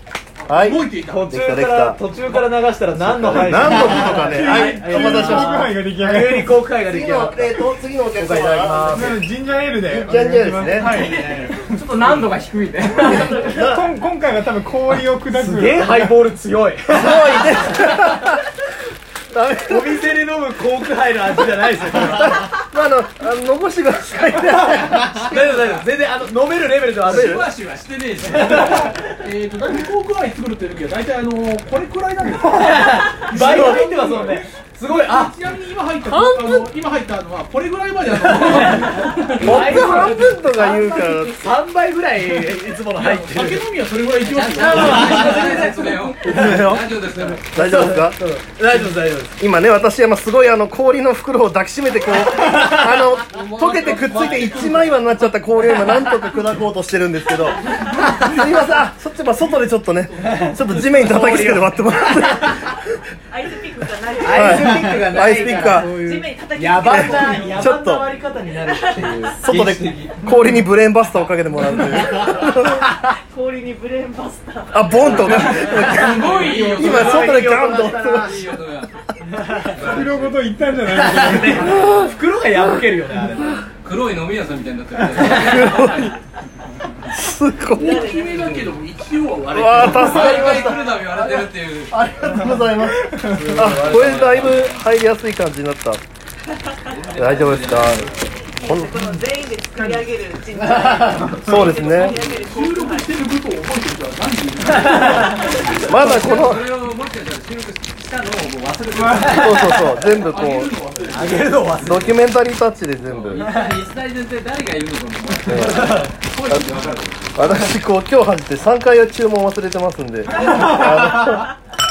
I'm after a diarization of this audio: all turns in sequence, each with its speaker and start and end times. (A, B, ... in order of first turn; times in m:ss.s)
0:00.5-0:01.2 A
0:00.5-0:02.0 B
0:01.1-0:09.3 C
0:03.0-0:05.7 B
0:04.1-0:06.6 D
0:06.8-0:09.2 B
0:08.9-0:12.0 D
0:09.9-0:11.0 B
0:10.8-0:11.2 A
0:11.7-0:13.3 C
0:12.0-0:12.9 E
0:13.0-0:13.6 F
0:13.0-0:16.1 D
0:13.1-0:13.9 B
0:15.3-0:18.2 C
0:16.9-0:18.4 B
0:19.3-0:20.1 B
0:19.7-0:22.5 C
0:22.0-0:25.8 B
0:25.1-0:27.5 C
0:27.0-0:29.6 E
0:27.1-0:27.5 B
0:28.3-0:29.0 C
0:29.5-0:39.6 A
0:32.6-0:35.4 C
0:36.1-0:36.7 B
0:38.3-0:43.6 C
0:39.1-0:40.2 E
0:39.4-0:41.5 B
0:42.9-0:45.7 A
0:44.2-0:47.5 E
0:44.6-0:46.6 C
0:46.2-0:47.0 B
0:47.1-0:49.4 C
0:47.5-0:48.2 B
0:49.4-1:02.8 B
0:53.3-0:56.7 A
0:57.4-1:01.2 A
1:00.3-1:02.7 C
1:03.3-1:07.8 F
1:04.2-1:10.4 C
1:04.3-1:05.9 B
1:06.9-1:08.1 B
1:08.6-1:09.3 F
1:09.4-1:12.9 B
1:12.0-1:16.0 F
1:14.7-1:18.5 B
1:15.0-1:19.0 E
1:15.7-1:18.4 C
1:19.3-1:20.0 C
1:19.6-1:20.4 E
1:19.8-1:21.9 D
1:20.9-1:23.6 C
1:21.6-1:22.1 B
1:21.7-1:22.2 E
1:23.8-1:26.2 E
1:25.1-1:25.7 C
1:25.3-1:26.1 B
1:27.1-1:28.0 B
1:27.7-1:30.6 A
1:27.8-1:28.7 F
1:29.5-1:36.0 B
1:29.8-1:32.0 E
1:33.2-1:34.7 C
1:33.6-1:34.9 E
1:36.8-1:38.4 E
1:37.2-1:38.1 B
1:38.5-1:43.2 F
1:38.6-1:38.9 B
1:39.8-1:40.0 D
1:40.8-1:41.2 C
1:41.3-1:45.6 A
1:41.4-1:42.2 B
1:45.4-1:45.8 F
1:45.8-1:49.8 E
1:45.8-1:46.6 B
1:49.0-1:49.3 D
1:49.2-1:50.7 B
1:49.4-1:50.1 C
1:49.9-1:51.8 A
1:51.0-1:52.3 E
1:51.1-1:52.2 C
1:51.8-1:53.5 B
1:53.0-1:57.7 E
1:53.4-1:53.8 C
1:55.4-1:56.0 B
1:55.6-1:57.0 A
1:55.7-1:56.1 C
1:57.4-2:01.5 B
2:00.4-2:01.4 F